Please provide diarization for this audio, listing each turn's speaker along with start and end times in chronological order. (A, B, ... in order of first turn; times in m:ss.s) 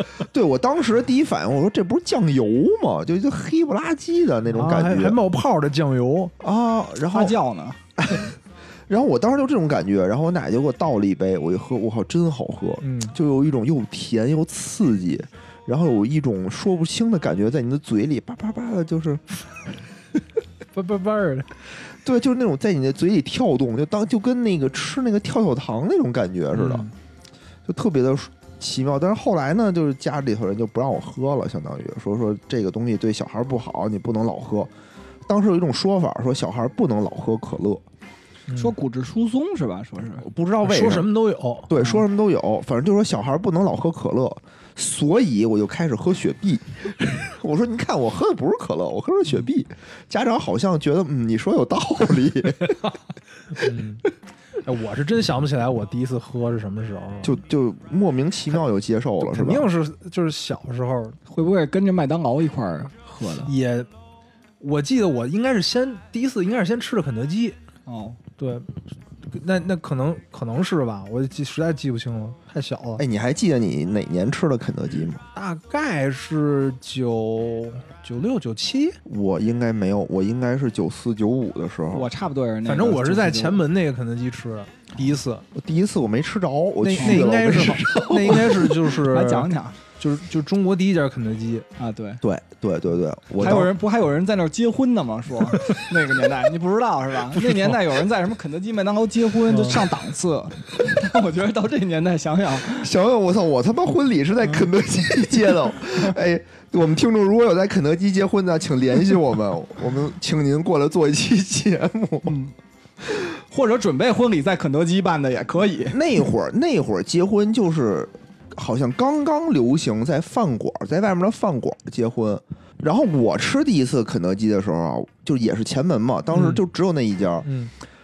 0:00.2-0:05.2 A
0:04.4-0:06.3 B
0:06.4-0:07.3 A
0:07.1-0:07.8 C
0:08.0-0:08.3 A
0:08.9-0:19.7 A
0:12.8-0:13.1 B
0:20.7-0:21.5 B
0:22.0-0:26.9 A
0:26.6-0:26.9 B
0:27.6-0:34.7 A
0:35.3-0:37.8 A
0:38.5-0:38.7 B
0:38.5-0:40.2 C
0:40.2-0:41.1 A
0:40.6-0:41.7 B
0:41.7-0:52.9 A
0:53.5-0:54.0 B
0:54.6-0:57.4 B
0:57.2-0:59.7 A
0:59.2-1:01.2 B
1:01.3-1:03.5 C
1:03.4-1:03.9 B
1:04.6-1:07.6 B
1:07.8-1:08.2 C
1:08.4-1:08.7 B
1:09.3-1:13.0 B
1:13.0-1:15.2 A
1:15.3-1:19.0 B
1:19.0-1:22.1 A
1:21.9-1:23.6 C
1:22.6-1:25.4 B
1:25.5-1:28.9 A
1:26.8-1:31.6 B
1:27.0-1:27.2 C
1:29.0-1:29.8 C
1:31.8-1:32.2 C
1:32.2-1:33.7 A
1:33.4-1:42.9 C
1:39.5-1:39.9 B
1:42.6-1:52.4 A
1:53.4-1:56.0 C
1:55.9-2:07.5 A
2:06.3-2:06.6 B
2:07.4-2:07.7 B